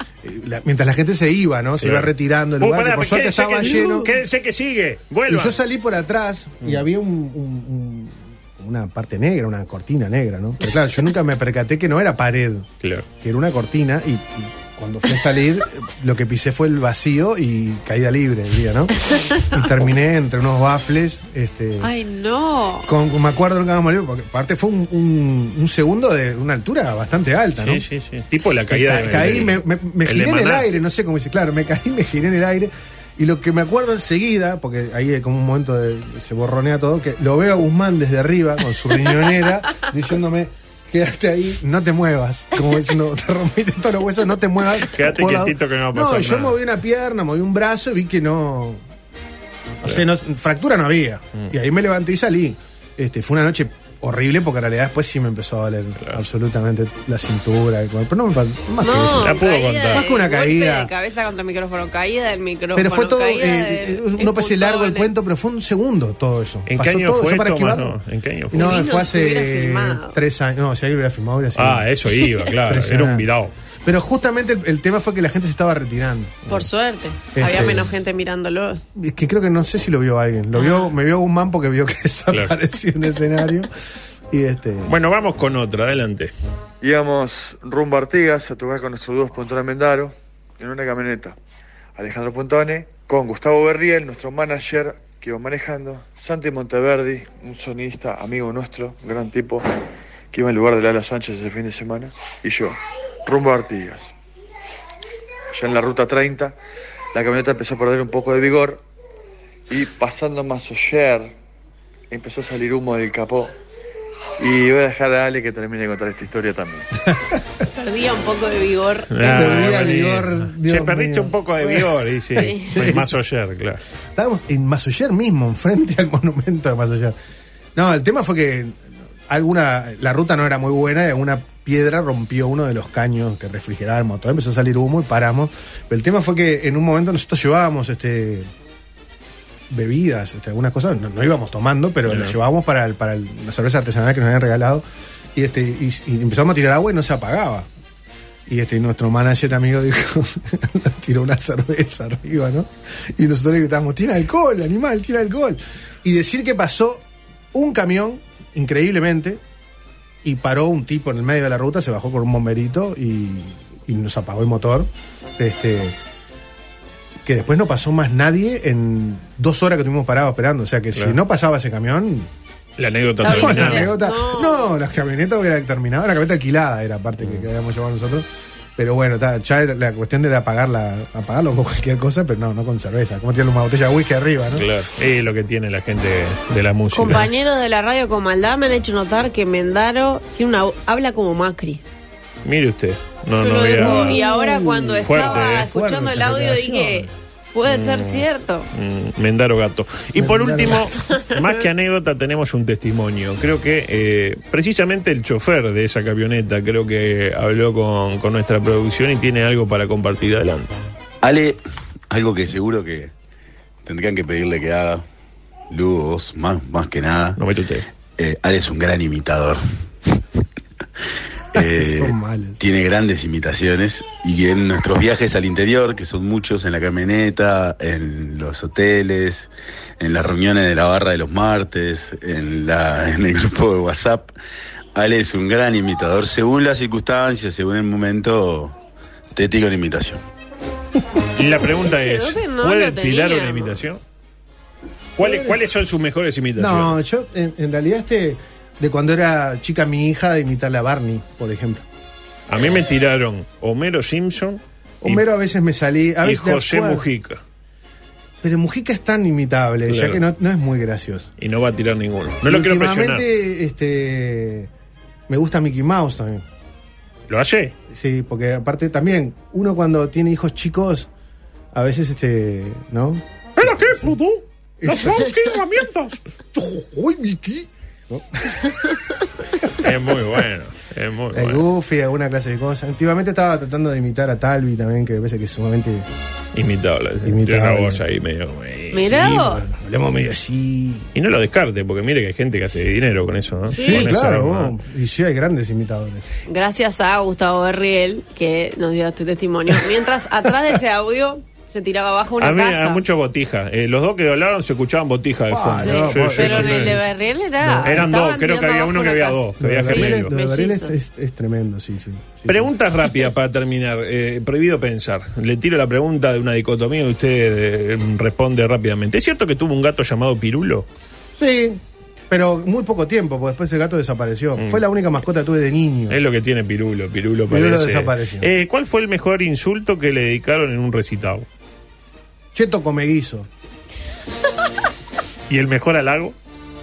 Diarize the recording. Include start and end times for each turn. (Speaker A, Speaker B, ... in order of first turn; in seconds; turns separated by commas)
Speaker A: 0.2-4.2, Speaker B: 1.8-5.6, Speaker A: 5.3-12.7, Speaker A: 13.2-21.9, Speaker C: 21.8-22.9, Speaker A: 22.9-27.8, Speaker B: 27.6-30.7, Speaker A: 28.7-48.8, Speaker B: 44.9-46.6, Speaker A: 49.8-59.4, Speaker C: 58.8-65.1, Speaker B: 59.0-60.0, Speaker A: 59.9-60.9, Speaker A: 62.7-68.0, Speaker B: 66.7-68.8, Speaker A: 68.5-71.9, Speaker C: 68.5-70.2, Speaker B: 71.5-73.5, Speaker A: 72.6-73.3, Speaker A: 73.8-76.3, Speaker C: 76.5-78.8, Speaker A: 77.3-77.9, Speaker A: 78.9-83.7, Speaker C: 80.5-80.9, Speaker A: 84.3-84.9, Speaker B: 84.8-86.3, Speaker D: 86.8-91.4, Speaker D: 92.0-99.7, Speaker D: 100.3-104.1, Speaker D: 105.5-106.5, Speaker D: 107.1-108.8, Speaker D: 109.7-111.3, Speaker D: 112.1-113.5, Speaker D: 114.4-116.9, Speaker A: 117.1-117.4, Speaker C: 117.8-119.8, Speaker B: 119.1-123.8, Speaker A: 119.3-123.2, Speaker C: 122.3-122.7, Speaker A: 124.2-127.1, Speaker A: 127.8-138.5, Speaker A: 139.7-144.8, Speaker B: 142.1-142.3, Speaker A: 145.3-147.7, Speaker A: 148.4-159.4, Speaker A: 160.2-165.9, Speaker A: 167.2-172.3, Speaker B: 172.8-173.9, Speaker C: 173.2-174.7, Speaker A: 173.2-178.2, Speaker B: 177.2-177.4, Speaker A: 178.8-184.7, Speaker B: 184.5-187.3, Speaker C: 186.9-191.8, Speaker B: 192.4-194.2, Speaker C: 193.3-198.7, Speaker A: 193.8-197.1, Speaker B: 195.0-195.7, Speaker B: 197.6-210.7, Speaker A: 200.2-201.1, Speaker C: 201.1-201.6, Speaker E: 211.2-213.1, Speaker E: 213.8-215.0, Speaker E: 215.7-217.4, Speaker B: 217.4-217.9, Speaker E: 218.2-219.6, Speaker A: 221.5-222.6, Speaker E: 221.5-234.3, Speaker E: 234.9-238.8, Speaker E: 239.3-240.2, Speaker B: 241.3-244.0, Speaker C: 241.8-243.8, Speaker A: 245.2-245.6, Speaker B: 245.2-247.0, Speaker A: 246.6-251.8, Speaker B: 252.5-255.2, Speaker A: 255.0-257.1, Speaker B: 256.2-257.4, Speaker A: 258.4-261.3, Speaker B: 259.9-260.2, Speaker B: 261.4-263.2, Speaker A: 262.4-264.7, Speaker A: 265.3-266.4, Speaker B: 267.3-267.7, Speaker A: 267.9-271.1, Speaker A: 271.7-274.2, Speaker B: 273.6-276.2, Speaker A: 274.8-275.6, Speaker A: 276.5-278.9, Speaker B: 279.8-281.6, Speaker A: 281.3-286.1, Speaker B: 286.5-289.2, Speaker A: 287.2-288.0, Speaker C: 288.9-289.6, Speaker A: 289.0-291.1, Speaker B: 291.1-294.7, Speaker A: 293.7-296.2, Speaker C: 293.7-294.1, Speaker C: 296.5-303.0, Speaker B: 302.4-306.9, Speaker A: 305.5-307.1, Speaker C: 305.8-310.9, Speaker A: 307.6-308.0, Speaker B: 307.8-310.3, Speaker A: 309.6-312.7, Speaker B: 312.5-320.9, Speaker A: 321.3-326.2, Speaker B: 324.6-324.8, Speaker B: 326.1-331.5, Speaker A: 327.5-328.5, Speaker A: 332.5-333.5, Speaker B: 335.5-336.4